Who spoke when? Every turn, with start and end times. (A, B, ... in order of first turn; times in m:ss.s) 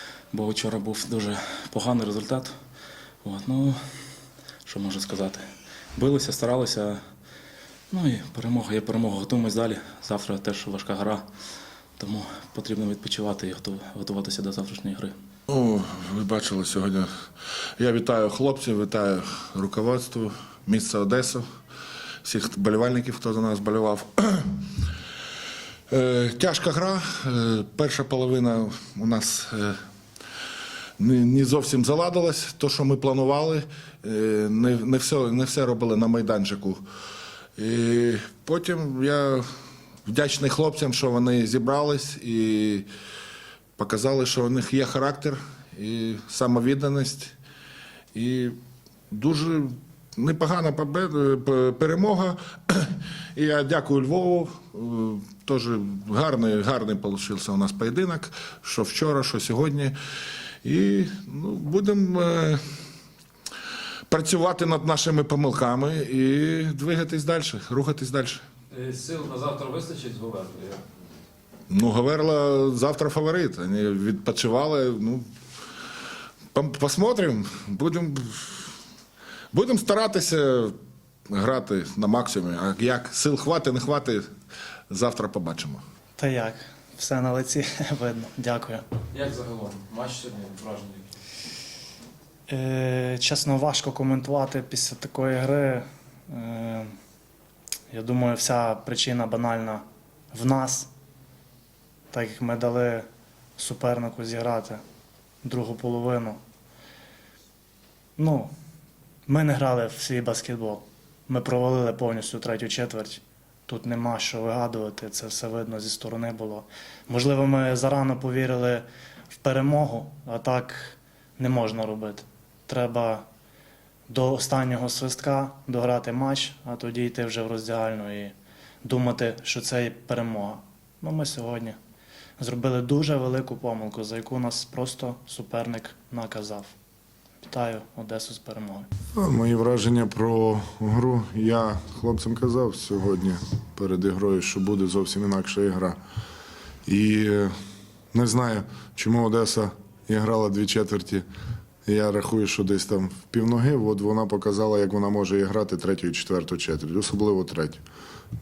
0:00.3-0:02.5 A
0:03.2-0:03.8 A
0:04.7-0:05.4 A
0:06.0-0:07.0 A
0:07.9-0:11.2 A
0:12.0-0:15.1 A
0:15.5-0:17.1 B
0:17.8-0:21.4 B
0:22.2-0:24.7 B
0:25.9-0:29.8 B
0:31.0-0:36.8 B
0:37.6-0:39.4 B
0:40.1-0:42.9 B
0:43.8-0:47.3 B
0:48.1-0:48.6 B
0:49.1-1:00.0 B
1:00.6-1:02.6 B
1:04.1-1:08.4 B
1:08.7-1:10.8 C
1:11.7-1:15.3 B
1:16.5-1:18.6 B
1:19.5-1:20.8 B
1:21.3-1:24.3 B
1:24.9-1:25.8 B
1:26.2-1:28.8 D
1:29.1-1:31.0 C
1:32.5-1:36.9 D
1:37.9-1:40.9 D
1:42.1-1:43.1 D
1:43.6-1:44.8 D
1:45.4-1:46.4 D
1:48.2-1:48.5 D
1:49.3-1:58.8 D
1:59.4-2:03.2 D
2:04.1-2:11.8 D
2:12.4-2:16.8 D
2:17.4-2:18.9 D
2:19.2-2:26.0 E
2:26.9-2:27.5 E
2:28.1-2:31.2 E
2:31.8-2:37.8 E